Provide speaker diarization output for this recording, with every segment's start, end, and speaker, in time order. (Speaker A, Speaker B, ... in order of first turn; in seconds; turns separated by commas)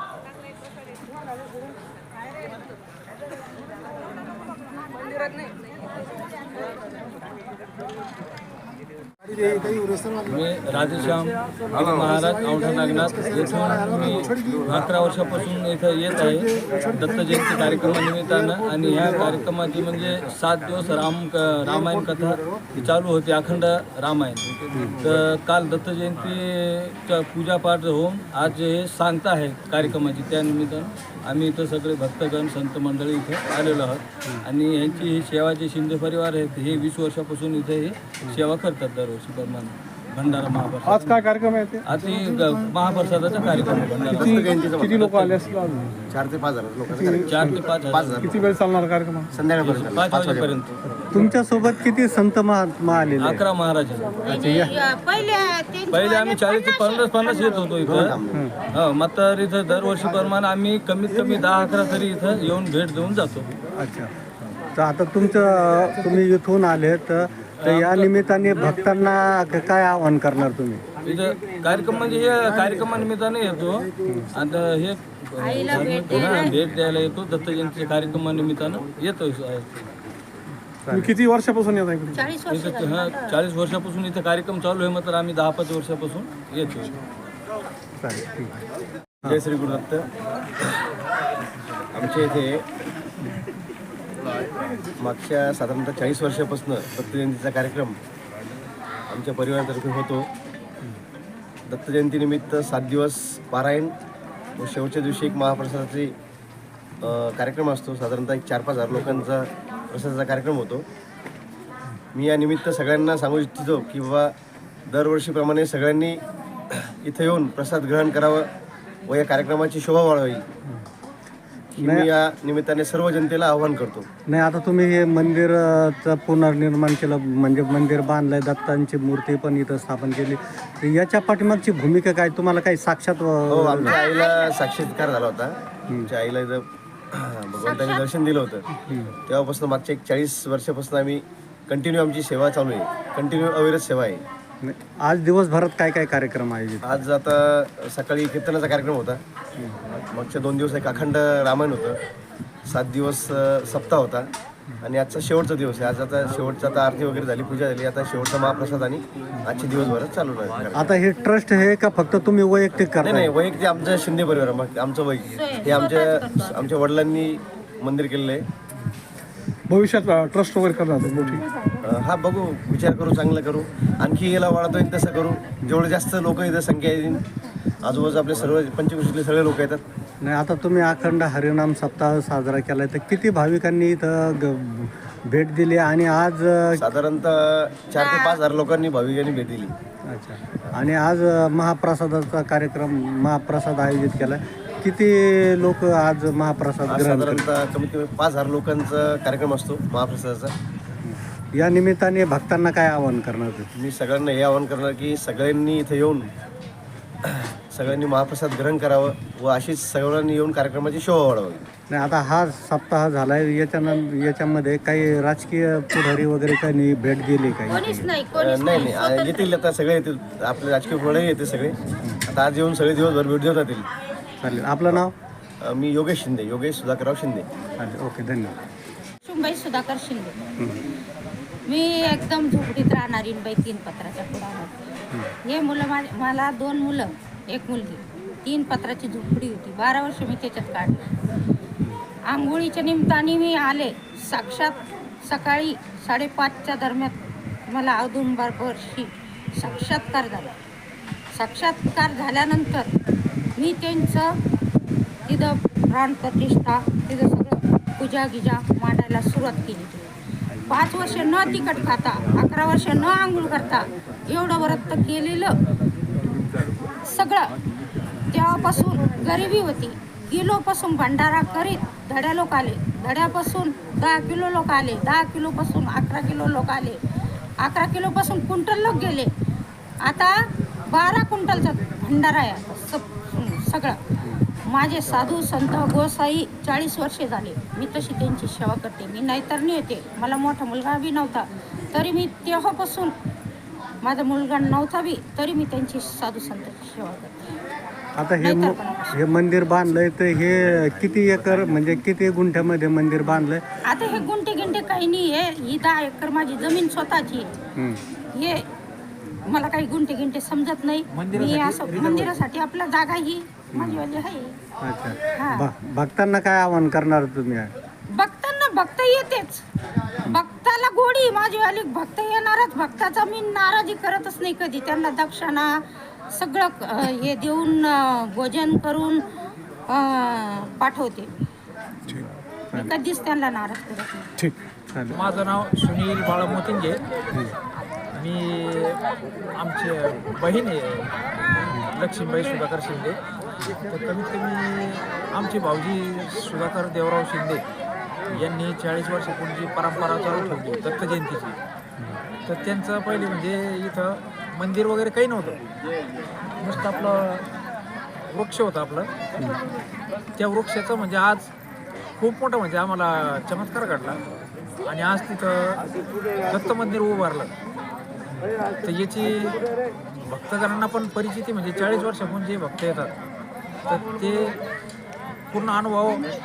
Speaker A: 10.2-41.1, Speaker B: 24.7-25.0, Speaker C: 40.9-41.9, Speaker A: 41.9-44.4, Speaker C: 43.4-46.1, Speaker D: 44.0-45.2, Speaker D: 46.1-48.5, Speaker A: 47.2-48.4, Speaker C: 48.2-49.3, Speaker D: 49.3-50.6, Speaker A: 49.6-50.8, Speaker B: 51.0-53.5, Speaker A: 53.2-54.2, Speaker E: 54.3-57.7, Speaker B: 54.3-54.7, Speaker A: 55.9-58.2, Speaker D: 57.8-58.4, Speaker A: 58.7-63.5, Speaker B: 63.7-70.8, Speaker A: 67.6-68.1, Speaker A: 71.0-79.9, Speaker E: 75.4-76.7, Speaker B: 80.8-81.2, Speaker C: 80.9-82.2, Speaker E: 82.1-83.4, Speaker A: 82.5-87.0, Speaker B: 88.0-88.6, Speaker D: 89.3-90.1, Speaker D: 92.0-92.6, Speaker D: 95.0-98.0, Speaker D: 99.1-100.3, Speaker D: 101.7-103.9, Speaker D: 104.6-106.2, Speaker D: 107.0-110.9, Speaker D: 112.1-114.3, Speaker D: 114.9-116.2, Speaker D: 116.7-118.5, Speaker D: 119.1-120.5, Speaker D: 121.8-124.1, Speaker B: 121.8-122.1, Speaker B: 124.3-134.0, Speaker D: 133.5-138.7, Speaker E: 133.9-134.5, Speaker E: 137.6-138.1, Speaker B: 138.7-139.2, Speaker D: 139.3-144.2, Speaker B: 144.6-146.9, Speaker D: 146.8-149.2, Speaker D: 150.1-152.0, Speaker D: 152.7-154.3, Speaker D: 154.8-161.0, Speaker B: 160.7-163.3, Speaker D: 163.0-168.5, Speaker E: 165.3-166.6, Speaker C: 169.7-171.5, Speaker D: 171.8-177.2, Speaker D: 177.8-179.8, Speaker B: 180.2-186.8, Speaker D: 186.8-189.7, Speaker E: 188.0-188.4, Speaker B: 190.1-197.5, Speaker D: 196.9-200.6, Speaker B: 201.0-203.7, Speaker D: 203.8-206.3, Speaker D: 207.3-211.7, Speaker B: 211.9-218.1, Speaker E: 217.7-219.6, Speaker D: 218.4-223.9, Speaker B: 224.4-225.1, Speaker D: 225.6-227.5, Speaker B: 227.8-228.6, Speaker E: 229.2-230.4, Speaker B: 230.6-230.8, Speaker E: 231.7-234.8, Speaker E: 235.4-241.1, Speaker E: 242.3-250.6, Speaker E: 251.3-252.9, Speaker E: 253.6-254.3, Speaker E: 255.3-260.1, Speaker E: 260.7-265.5, Speaker E: 267.1-267.5, Speaker E: 268.3-277.0, Speaker E: 277.6-279.3, Speaker E: 280.0-280.3, Speaker E: 280.9-284.0, Speaker E: 284.7-293.1, Speaker E: 294.0-297.4, Speaker B: 298.2-303.6, Speaker E: 298.4-299.2, Speaker E: 303.9-307.5, Speaker B: 307.8-308.0, Speaker E: 308.3-308.7, Speaker E: 309.5-314.6, Speaker F: 311.1-312.4, Speaker B: 313.7-314.1, Speaker B: 314.8-317.7, Speaker E: 315.4-315.7, Speaker E: 318.1-319.6, Speaker E: 320.3-325.8, Speaker E: 326.3-329.2, Speaker E: 329.9-331.3, Speaker B: 332.1-332.9, Speaker E: 332.7-334.3, Speaker B: 334.9-335.2, Speaker F: 335.1-337.0, Speaker F: 338.1-339.0, Speaker F: 339.6-341.1, Speaker F: 341.9-343.2, Speaker F: 343.8-347.6, Speaker F: 348.3-351.6, Speaker F: 352.5-355.6, Speaker F: 356.6-357.5, Speaker F: 358.3-359.1, Speaker F: 360.4-361.5, Speaker F: 362.2-364.2, Speaker F: 364.8-365.8, Speaker F: 366.4-367.5, Speaker F: 368.8-369.6, Speaker F: 370.2-373.1, Speaker F: 373.9-374.6, Speaker F: 375.5-376.3